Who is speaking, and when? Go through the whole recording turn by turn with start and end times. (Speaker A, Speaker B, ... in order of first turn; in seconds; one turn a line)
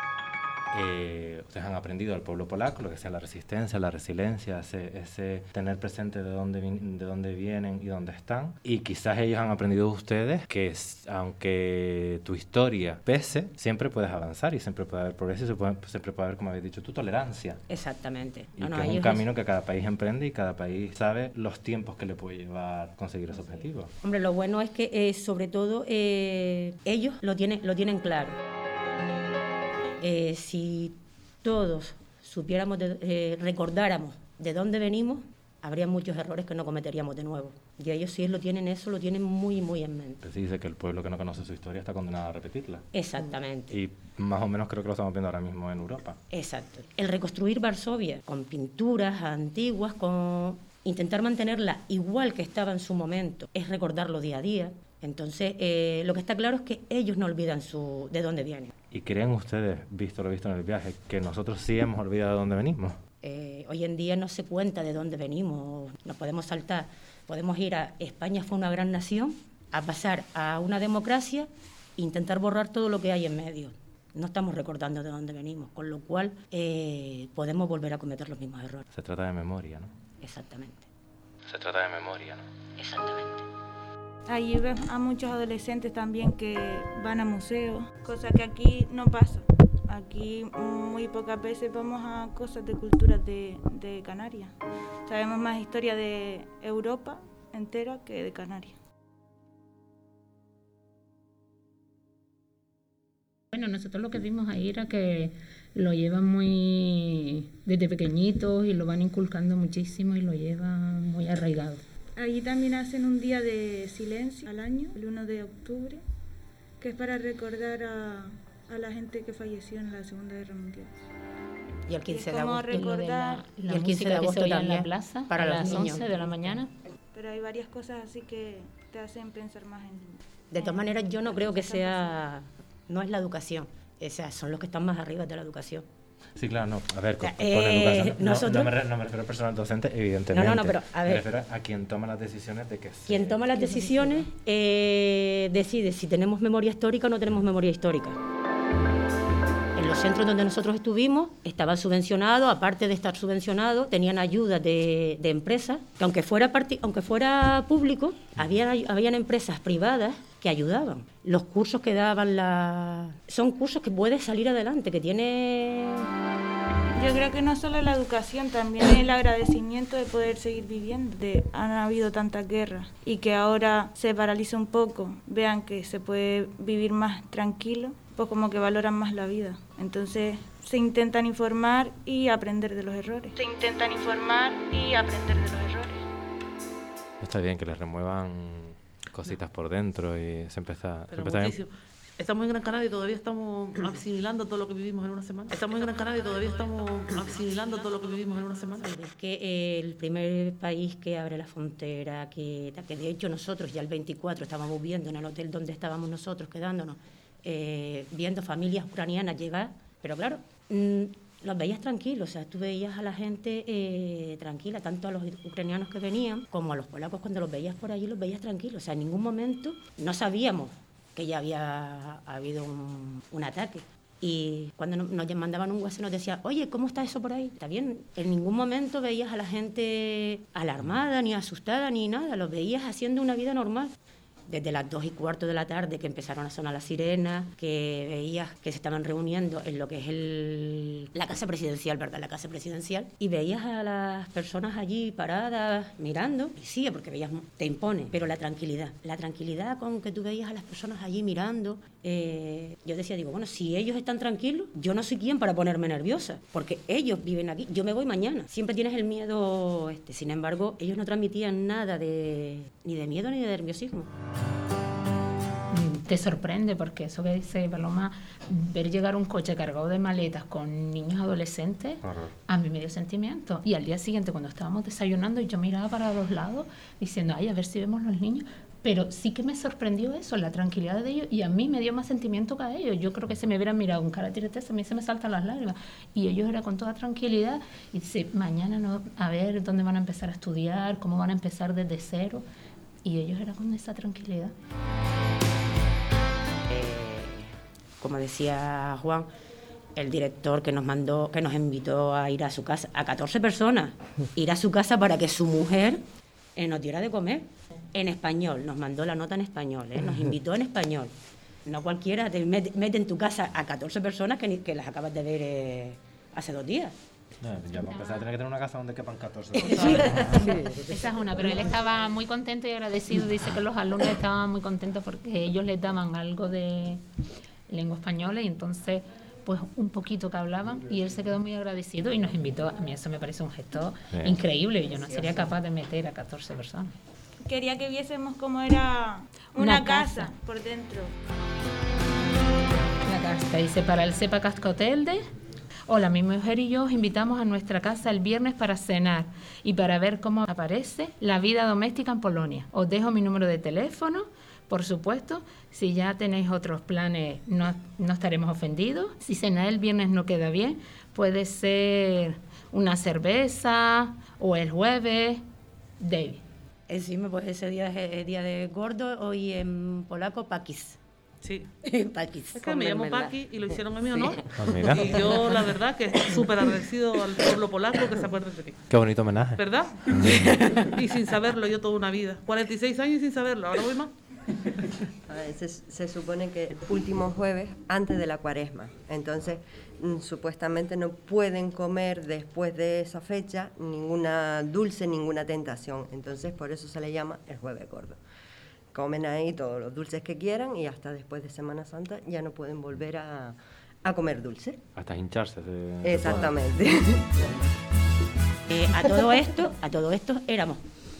Speaker A: 0.7-17.6
Speaker B: 17.7-19.2
Speaker A: 18.6-23.9
Speaker B: 24.0-28.4
Speaker B: 30.0-40.2
Speaker A: 40.2-42.8
Speaker B: 42.9-43.8
Speaker A: 43.7-46.2
Speaker B: 46.3-58.7
Speaker A: 58.9-63.0
Speaker B: 63.2-78.9
Speaker A: 78.9-79.9
Speaker B: 80.2-80.9
Speaker A: 81.5-82.4
Speaker B: 82.8-83.5
Speaker C: 84.3-94.5
Speaker C: 95.0-98.8
Speaker D: 103.5-111.8
Speaker C: 112.2-116.0
Speaker C: 116.8-120.9
Speaker B: 121.9-122.8
Speaker C: 122.1-123.5
Speaker D: 122.7-126.7
Speaker B: 123.7-126.1
Speaker C: 127.1-132.2
Speaker B: 130.5-135.8
Speaker A: 136.3-143.4
Speaker B: 137.2-138.7
Speaker B: 140.3-141.2
Speaker B: 143.1-148.2
Speaker B: 149.7-166.1
Speaker C: 166.9-186.0
Speaker A: 187.2-191.6
Speaker E: 191.1-198.9
Speaker B: 198.8-233.9
Speaker B: 234.5-264.1
Speaker D: 265.7-292.4
Speaker A: 272.0-272.3
Speaker D: 293.0-294.5
Speaker B: 296.7-299.3
Speaker B: 299.9-306.0
Speaker B: 306.6-311.1
Speaker B: 311.6-316.9
Speaker A: 317.4-320.6
Speaker D: 317.9-318.2
Speaker B: 319.5-321.0
Speaker D: 320.6-327.0
Speaker D: 327.7-337.0
Speaker A: 334.1-334.4
Speaker C: 337.4-341.1
Speaker D: 339.6-340.3
Speaker D: 343.0-345.2
Speaker D: 345.9-365.4
Speaker D: 366.0-366.4
Speaker B: 366.9-371.0
Speaker E: 371.4-371.7
Speaker B: 371.8-373.3
Speaker E: 372.5-378.9
Speaker B: 374.1-375.6
Speaker A: 374.6-375.2
Speaker A: 378.9-380.3
Speaker E: 379.6-384.1
Speaker B: 380.2-380.9
Speaker F: 385.3-398.2
Speaker F: 398.9-404.8
Speaker A: 404.9-406.5
Speaker F: 406.0-407.5
Speaker B: 408.7-410.8